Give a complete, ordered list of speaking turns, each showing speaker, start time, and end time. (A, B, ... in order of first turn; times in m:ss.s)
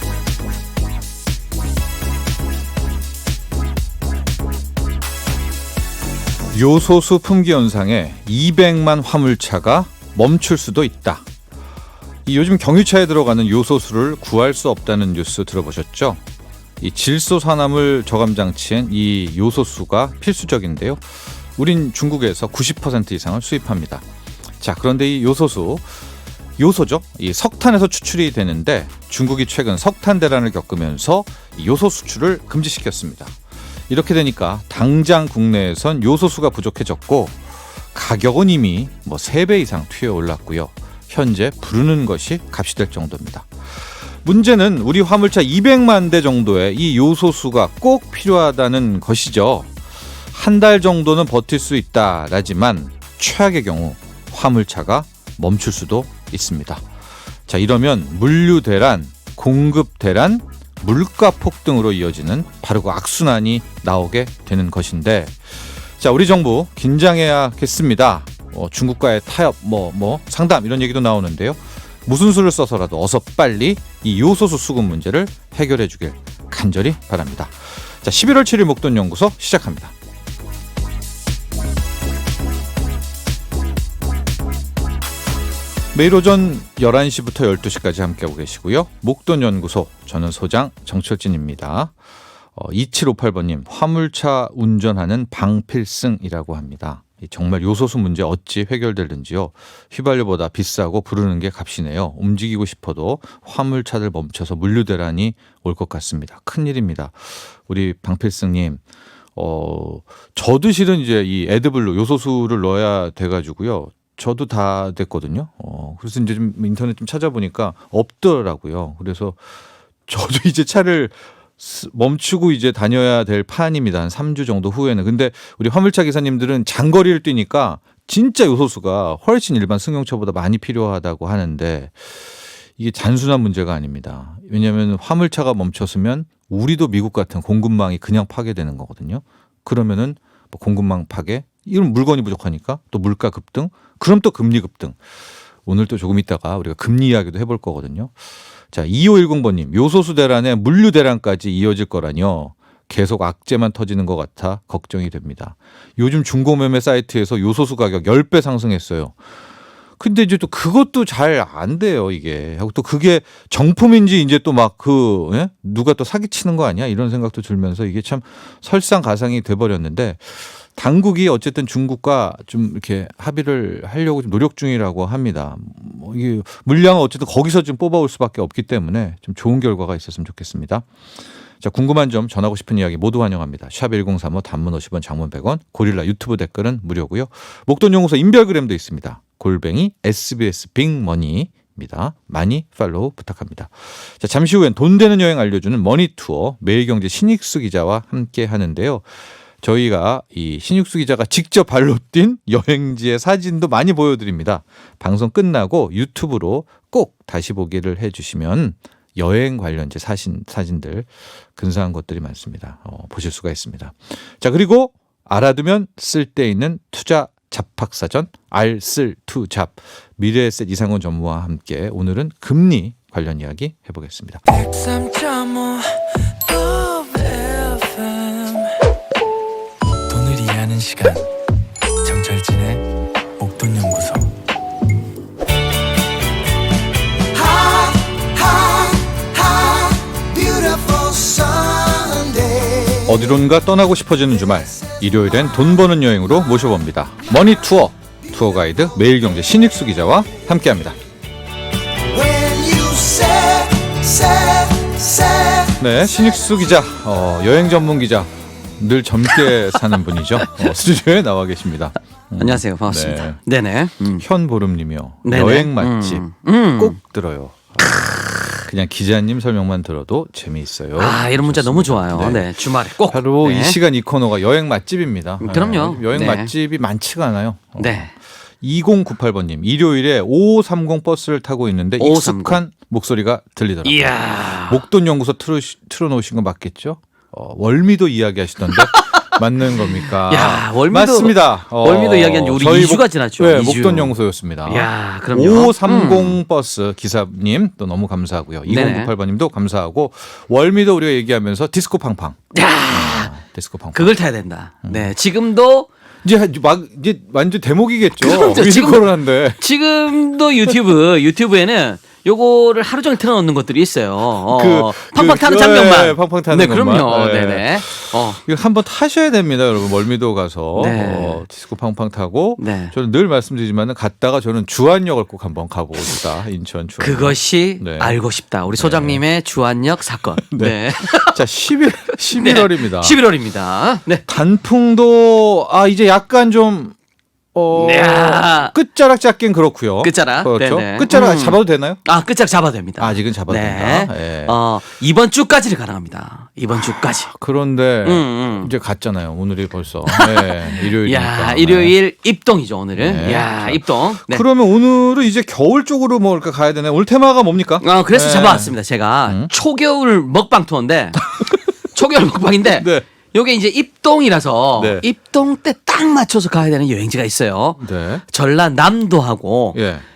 0:06.5-0:11.3 A
0:12.2-0:16.2 A
0:16.8-0:24.0 A
0:24.6-0:25.8 A
0:26.6-0:33.3 A
0:33.9-0:37.4 A
0:37.9-0:49.7 A
0:50.3-0:56.8 A
0:57.5-1:05.4 A
1:06.0-1:19.9 A
1:25.9-1:31.9 A
1:32.6-1:48.8 A
1:49.4-1:59.4 A
2:00.1-2:12.2 A
2:12.8-2:25.0 A
2:25.7-2:28.1 A
2:28.7-2:39.2 A
2:40.0-3:00.9 A
3:01.6-3:19.0 A
3:19.6-3:44.4 A
3:44.5-3:48.7 B
3:50.1-3:51.2 B
3:52.0-3:52.8 B
3:53.4-3:54.3 B
3:57.3-4:02.9 B
4:03.0-4:11.0 A
4:12.1-4:15.7 B
4:15.8-4:23.4 A
4:22.4-4:24.2 C
4:24.2-4:32.5 A
4:25.2-4:27.0 C
4:27.8-4:28.6 C
4:31.0-4:33.8 C
4:33.1-4:38.1 A
4:35.4-4:36.5 C
4:37.8-4:38.1 C
4:38.6-5:04.1 A
4:42.0-4:42.6 C
4:43.8-4:44.8 C
4:48.9-4:56.4 C
4:58.7-4:59.1 C
5:02.5-5:03.3 C
5:03.9-5:05.9 C
5:04.8-5:05.1 A
5:06.2-5:09.6 A
5:08.2-5:18.4 C
5:14.5-5:28.2 A
5:20.8-5:21.4 C
5:22.6-5:22.9 C
5:27.0-5:31.4 C
5:28.7-5:29.2 A
5:30.4-5:33.2 A
5:32.4-5:34.2 C
5:34.3-5:36.9 A
5:37.5-5:42.0 A
5:37.7-5:38.7 C
5:40.0-5:47.3 C
5:43.0-5:44.6 A
5:47.3-5:51.9 A
5:48.0-5:48.7 C
5:50.1-5:54.4 C
5:53.0-5:58.7 A
5:57.8-6:01.2 C
6:01.3-6:01.6 A
6:01.9-6:09.8 C
6:02.8-6:03.0 A
6:04.8-6:05.0 A
6:07.8-6:08.2 A
6:09.8-6:10.0 A